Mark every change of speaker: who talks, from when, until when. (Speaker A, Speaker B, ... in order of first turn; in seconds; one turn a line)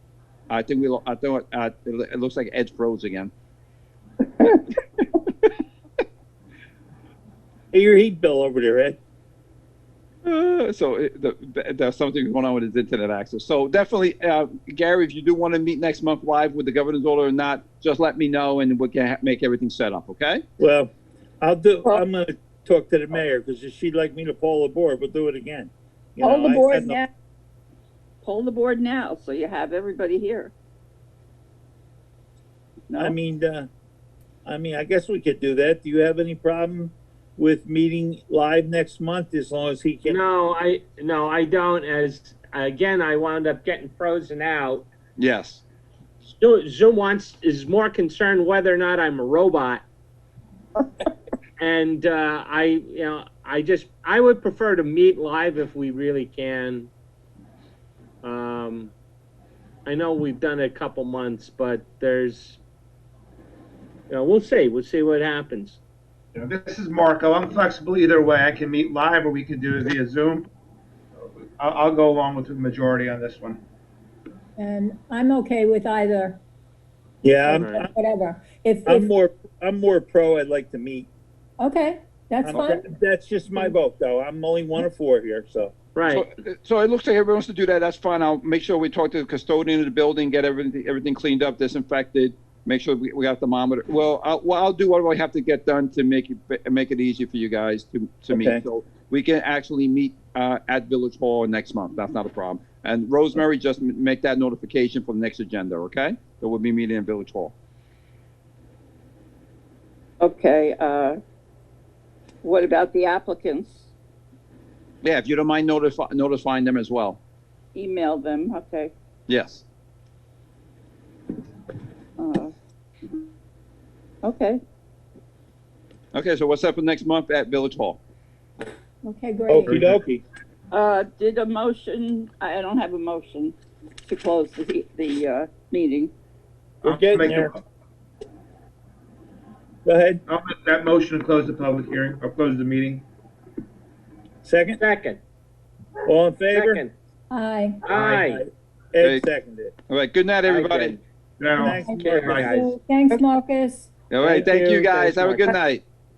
Speaker A: 0.5-3.3
Speaker A: 4.4-5.1
Speaker B: 7.7-9.0
Speaker A: 10.2-20.4
Speaker B: 20.6-20.9
Speaker B: 21.4-27.0
Speaker C: 26.2-27.1
Speaker C: 28.2-30.5
Speaker B: 32.9-33.7
Speaker B: 34.5-40.2
Speaker D: 40.0-44.9
Speaker A: 45.2-45.6
Speaker D: 46.2-49.8
Speaker D: 51.6-56.9
Speaker D: 58.2-58.9
Speaker D: 59.9-62.6
Speaker D: 64.1-65.8
Speaker E: 66.3-70.5
Speaker E: 71.6-73.6
Speaker F: 74.6-76.4
Speaker B: 77.2-77.9
Speaker F: 77.4-79.1
Speaker D: 77.5-77.8
Speaker B: 78.8-81.1
Speaker F: 81.6-82.8
Speaker B: 82.4-85.7
Speaker D: 85.9-86.2
Speaker A: 86.1-107.5
Speaker B: 98.3-98.6
Speaker C: 110.2-111.2
Speaker C: 112.4-113.9
Speaker A: 115.0-117.2
Speaker C: 117.7-118.9
Speaker A: 119.3-119.6
Speaker C: 122.2-122.5
Speaker C: 124.2-124.6
Speaker A: 126.1-128.0
Speaker F: 129.0-129.8
Speaker B: 129.5-130.2
Speaker E: 129.6-129.9
Speaker C: 130.7-133.5
Speaker C: 134.1-136.1
Speaker B: 136.8-137.5
Speaker E: 136.8-137.6
Speaker B: 139.8-140.2
Speaker E: 140.3-143.0
Speaker B: 144.4-144.8
Speaker D: 144.8-145.2
Speaker B: 146.1-146.8
Speaker D: 146.5-146.9
Speaker F: 147.3-147.8
Speaker D: 147.8-148.4
Speaker B: 147.9-149.7
Speaker A: 149.9-151.0
Speaker D: 150.4-151.0
Speaker E: 151.4-152.5
Speaker B: 151.6-152.7
Speaker F: 151.8-153.9
Speaker D: 151.9-152.7
Speaker A: 154.1-155.8
Speaker B: 154.2-155.5